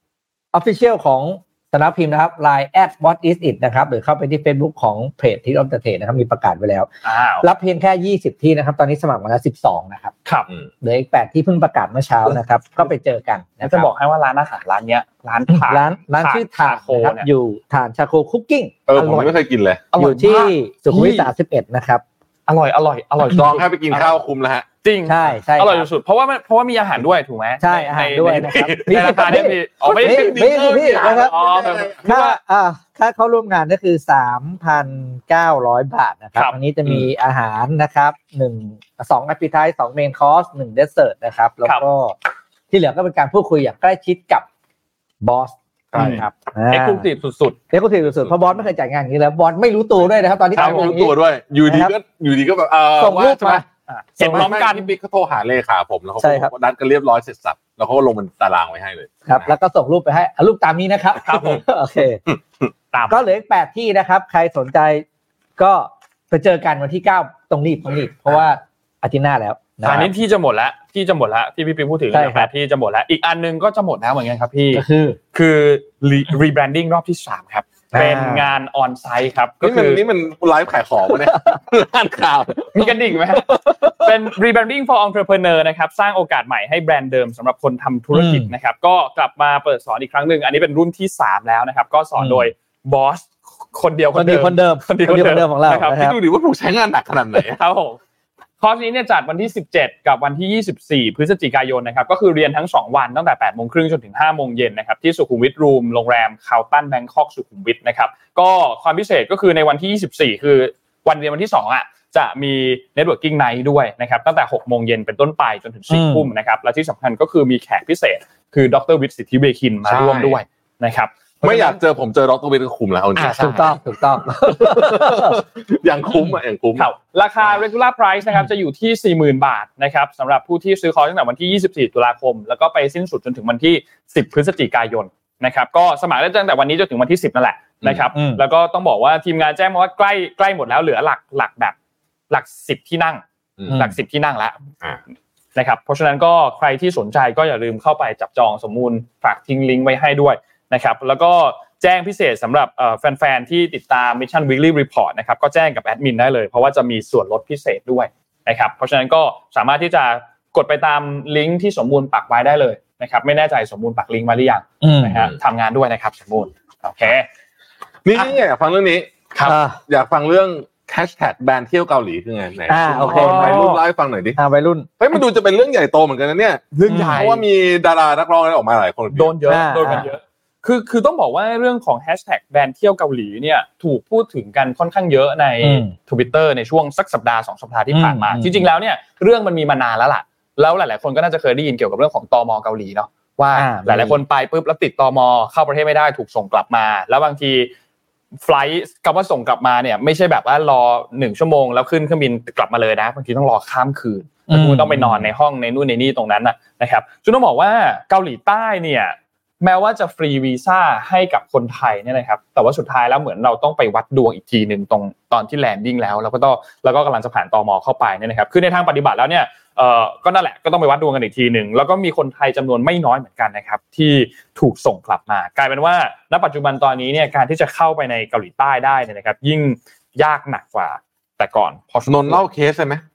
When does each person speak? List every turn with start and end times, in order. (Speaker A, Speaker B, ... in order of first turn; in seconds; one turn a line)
Speaker A: 0.5-6.9
Speaker B: 7.0-7.5
Speaker A: 7.4-10.1
Speaker A: 10.8-13.9
Speaker B: 13.6-17.3
Speaker A: 15.5-19.4
Speaker C: 18.9-19.9
Speaker B: 19.9-21.3
Speaker A: 19.9-22.0
Speaker B: 22.5-24.1
Speaker C: 23.2-24.7
Speaker B: 24.8-32.4
Speaker A: 25.1-25.9
Speaker A: 27.6-31.4
Speaker C: 28.4-32.0
Speaker A: 32.0-42.1
Speaker A: 42.7-44.5
Speaker A: 45.2-47.1
Speaker C: 45.9-46.2
Speaker B: 46.0-47.6
Speaker A: 47.7-51.9
Speaker C: 50.5-53.6
Speaker B: 50.5-50.9
Speaker A: 53.0-53.6
Speaker B: 53.9-54.9
Speaker C: 54.2-59.5
Speaker A: 56.2-56.5
Speaker A: 59.3-62.2
Speaker B: 61.2-61.6
Speaker B: 62.9-63.2
Speaker A: 63.1-65.0
Speaker A: 65.6-70.1
Speaker B: 69.8-80.0
Speaker A: 72.1-72.5
Speaker A: 74.7-75.2
Speaker A: 77.9-78.5
Speaker C: 79.6-84.2
Speaker B: 82.7-96.1
Speaker A: 88.1-88.5
Speaker A: 92.2-92.5
Speaker A: 94.1-96.2
Speaker C: 95.8-97.6
Speaker B: 97.4-98.0
Speaker B: 98.6-121.8
Speaker A: 115.9-116.3
Speaker C: 119.9-120.4
Speaker C: 121.4-123.6
Speaker B: 123.2-123.7
Speaker A: 123.3-125.4
Speaker C: 124.2-126.9
Speaker B: 126.8-141.8
Speaker A: 138.2-138.4
Speaker B: 142.3-144.6
Speaker A: 143.7-143.9
Speaker B: 145.6-167.3
Speaker A: 164.8-165.3
Speaker C: 168.1-169.1
Speaker A: 169.4-169.8
Speaker C: 169.9-174.4
Speaker A: 172.7-173.7
Speaker B: 173.0-173.8
Speaker A: 174.4-174.9
Speaker C: 175.0-179.3
Speaker B: 176.7-177.4
Speaker A: 176.9-177.2
Speaker B: 179.1-197.7
Speaker A: 179.5-180.1
Speaker A: 185.6-185.9
Speaker A: 187.9-188.7
Speaker A: 193.6-194.2
Speaker B: 198.4-232.4
Speaker A: 204.5-205.3
Speaker C: 232.1-233.0